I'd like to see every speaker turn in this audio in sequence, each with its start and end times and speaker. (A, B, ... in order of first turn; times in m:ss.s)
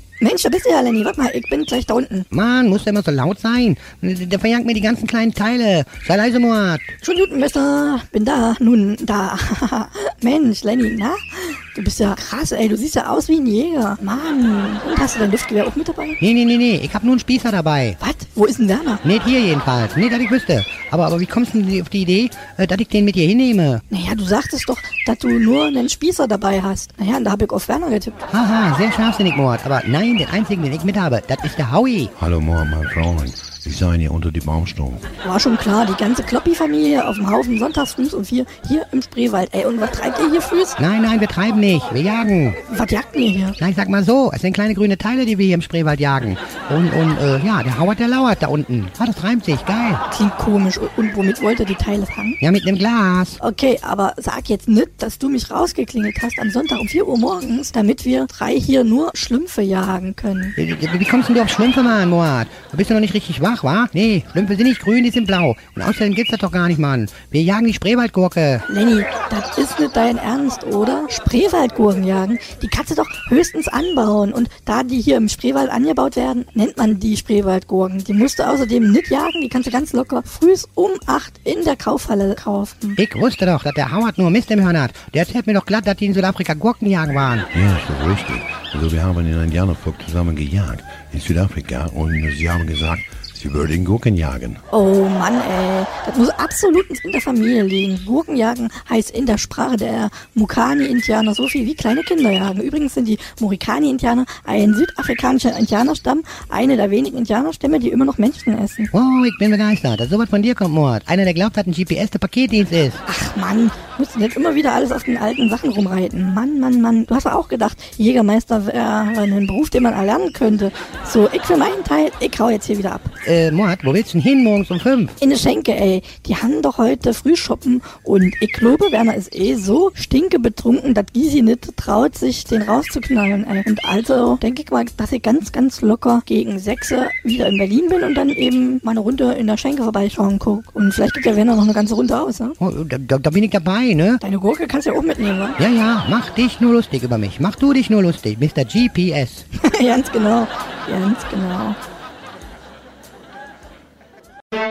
0:00.2-0:02.3 A
0:02.3-0:06.9 B
0:07.0-0:16.2 A
0:16.2-0:18.0 B
0:18.0-0:19.0 A
0:19.0-0:23.8 B
0:23.9-0:28.2 A
0:28.3-0:32.1 B
0:32.2-0:35.0 C
0:35.2-0:40.8 A
0:40.8-0:42.6 B
0:42.7-0:43.6 A
0:43.6-0:50.0 B
0:50.1-0:52.4 A
0:52.4-0:53.4 B
0:53.4-1:00.5 A
1:00.6-1:08.6 B
1:08.7-1:23.0 A
1:23.0-1:27.5 B
1:27.5-1:34.6 C
1:34.7-1:48.9 A
1:48.9-1:53.0 B
1:53.0-2:03.1 A
2:03.2-2:05.2 B
2:05.2-2:22.6 A
2:22.6-2:24.2 B
2:24.2-2:25.6 A
2:25.6-2:29.4 B
2:29.5-2:31.8 A